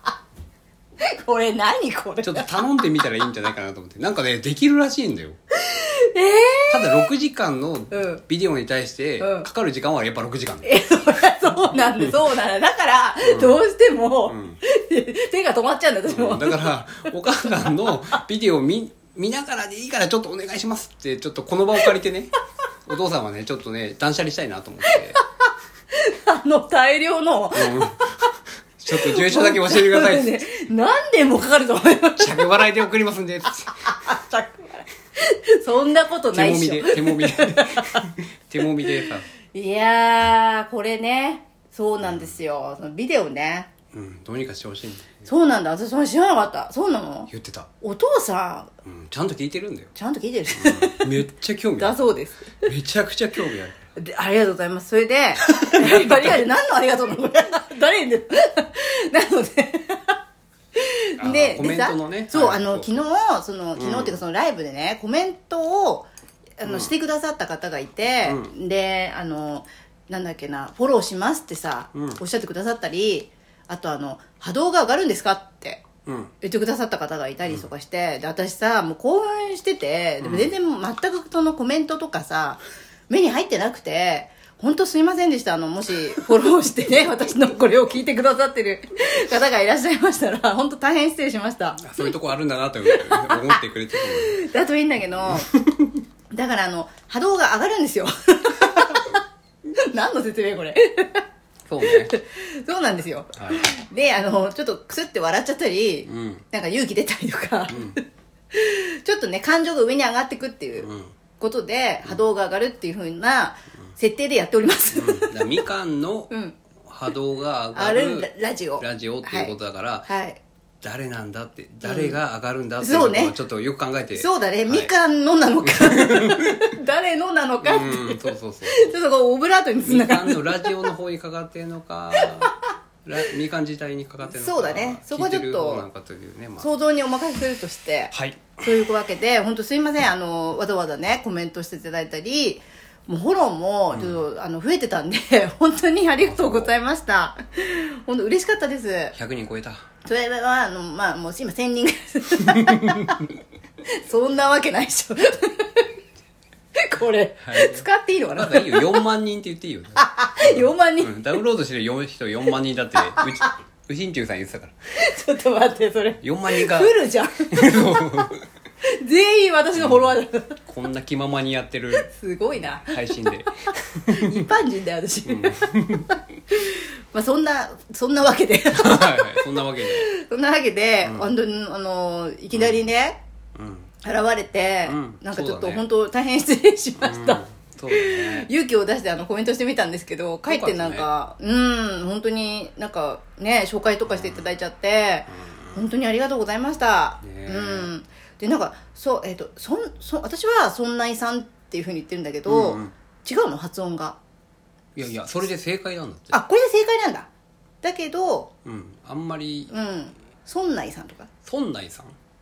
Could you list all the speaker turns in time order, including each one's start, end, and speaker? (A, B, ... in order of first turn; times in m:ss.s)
0:01.0-0:02.8 A
0:02.2-0:05.4 B
0:05.6-0:07.1 A
0:06.7-0:10.7 B
0:07.9-0:08.2 A
0:09.2-0:09.5 A
0:10.6-0:18.1 A
0:13.2-0:13.6 B
0:14.3-0:14.6 B
0:16.1-0:22.3 B
0:22.9-0:25.2 B
0:24.8-0:25.2 A
0:25.9-0:28.1 A
0:27.5-0:28.1 B
0:28.8-0:30.4 B
0:28.9-0:32.6 A
0:32.2-0:33.9 B
0:33.7-0:38.0 A
0:36.3-0:39.3 B
0:38.8-0:43.7 A
0:42.0-0:42.4 B
0:43.9-0:45.2 B
0:45.2-0:47.3 A
0:47.3-0:47.7 B
0:47.8-0:48.7 A
0:48.8-0:49.9 B
0:49.9-0:51.1 A
0:50.5-0:52.1 B
0:51.8-0:52.5 A
0:52.6-0:53.9 B
0:54.0-1:00.2 A
0:55.8-0:56.4 B
1:00.8-1:15.8 A
1:01.2-1:03.0 B
1:03.8-1:04.2 B
1:06.6-1:06.9 B
1:08.2-1:08.5 B
1:11.9-1:12.2 B
1:16.1-1:16.3 B
1:16.4-1:32.1 A
1:20.2-1:20.5 B
1:31.8-1:34.4 B
1:32.9-1:35.5 A
1:35.2-1:36.0 B
1:36.3-1:39.2 A
1:39.8-1:41.2 A
1:41.7-1:42.1 B
1:41.8-1:50.9 A
1:43.4-1:43.7 B
1:46.1-1:46.4 B
1:47.7-1:48.0 B
1:50.8-1:51.1 B
1:51.4-1:55.6 A
1:54.9-1:56.3 B
1:56.3-1:56.6 A
1:56.8-2:00.1 B
1:57.7-1:59.5 A
2:00.1-2:00.4 A
2:00.8-2:04.9 B
2:01.8-2:02.2 A
2:02.8-2:03.3 A
2:04.2-2:10.9 A
2:05.6-2:06.6 B
2:07.6-2:08.9 B
2:09.8-2:12.5 B
2:12.2-2:12.5 A
2:13.0-2:16.7 B
2:14.3-2:15.8 A
2:16.6-2:29.2 A
2:18.1-2:18.6 B
2:23.9-2:24.2 B
2:26.2-2:26.7 B
2:29.1-2:29.8 B
2:30.0-2:33.3 A
2:32.4-2:33.0 B
2:33.9-2:35.9 A
2:36.8-2:39.0 A
2:37.4-2:37.8 B
2:38.4-2:44.8 B
2:40.0-2:41.3 A
2:45.0-2:48.2 A
2:46.2-2:47.0 B
2:47.5-2:48.4 B
2:48.8-2:50.6 A
2:49.7-2:54.5 B
2:52.0-2:55.7 A
2:55.3-2:56.2 B
2:56.5-3:03.2 A
2:58.7-3:00.1 B
3:01.0-3:01.3 B
3:02.5-3:02.8 B
3:03.6-3:03.9 B
3:04.0-3:24.2 A
3:04.8-3:05.8 B
3:07.0-3:08.5 B
3:10.5-3:11.1 B
3:14.1-3:14.4 B
3:15.3-3:15.8 B
3:17.2-3:17.9 B
3:22.4-3:22.9 B
3:25.0-3:26.3 B
3:26.3-3:27.3 A
3:27.8-3:28.5 A
3:28.6-3:29.7 B
3:29.7-3:31.3 A
3:31.4-3:32.2 B